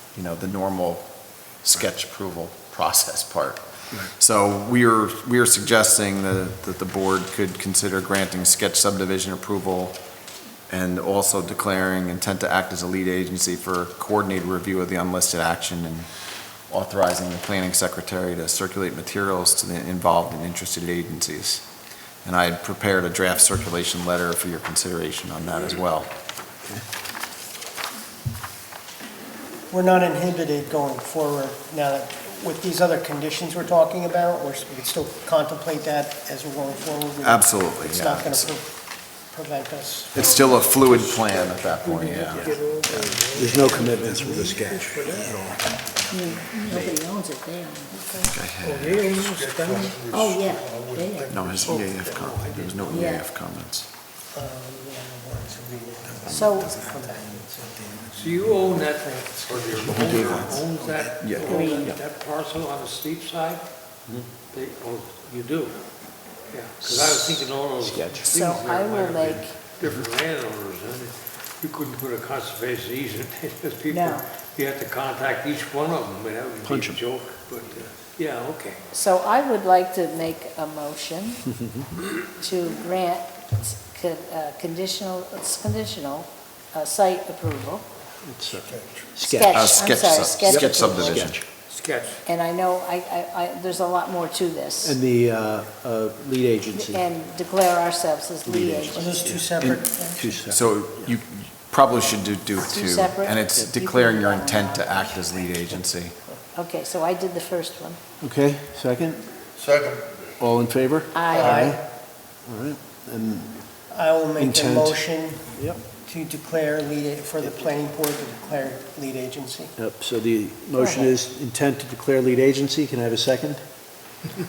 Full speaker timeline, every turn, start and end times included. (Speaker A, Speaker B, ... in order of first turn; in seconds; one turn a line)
Speaker A: 0.1-1.0
Speaker A: 1.6-10.0
Speaker A: 10.7-16.1
Speaker A: 16.7-21.6
Speaker A: 22.2-26.1
Speaker B: 29.7-40.4
Speaker A: 37.2-38.5
Speaker A: 40.1-43.3
Speaker C: 40.4-41.7
Speaker D: 40.9-45.0
Speaker E: 43.3-45.5
Speaker C: 43.3-43.7
Speaker C: 45.1-45.5
Speaker F: 46.1-48.3
Speaker A: 48.2-49.0
Speaker D: 48.6-49.9
Speaker C: 49.0-51.9
Speaker F: 49.8-51.4
Speaker A: 51.3-53.9
Speaker D: 51.6-53.1
Speaker F: 52.9-53.2
Speaker B: 54.3-58.2
Speaker A: 56.2-56.7
Speaker F: 56.2-56.8
Speaker D: 58.1-63.7
Speaker E: 59.9-60.2
Speaker A: 61.2-61.6
Speaker F: 61.4-61.9
Speaker D: 64.3-65.8
Speaker D: 66.5-78.9
Speaker E: 67.8-68.2
Speaker F: 68.3-69.5
Speaker F: 73.9-74.2
Speaker E: 76.6-77.0
Speaker F: 78.9-81.5
Speaker F: 82.4-87.8
Speaker E: 88.2-89.6
Speaker C: 88.5-89.1
Speaker F: 89.2-91.3
Speaker A: 89.5-91.4
Speaker E: 90.5-91.3
Speaker D: 91.7-92.2
Speaker F: 92.2-95.0
Speaker E: 94.8-97.0
Speaker F: 96.7-99.4
Speaker E: 98.4-100.9
Speaker B: 98.9-100.5
Speaker A: 100.5-106.2
Speaker F: 102.6-105.3
Speaker F: 106.5-108.0
Speaker E: 108.2-109.2
Speaker C: 109.6-110.0
Speaker E: 110.4-111.8
Speaker F: 111.1-111.8
Speaker B: 111.3-111.8
Speaker E: 112.4-113.6
Speaker B: 113.9-119.7
Speaker E: 114.4-115.0
Speaker E: 115.5-115.8
Speaker E: 119.8-123.6
Speaker F: 120.8-121.1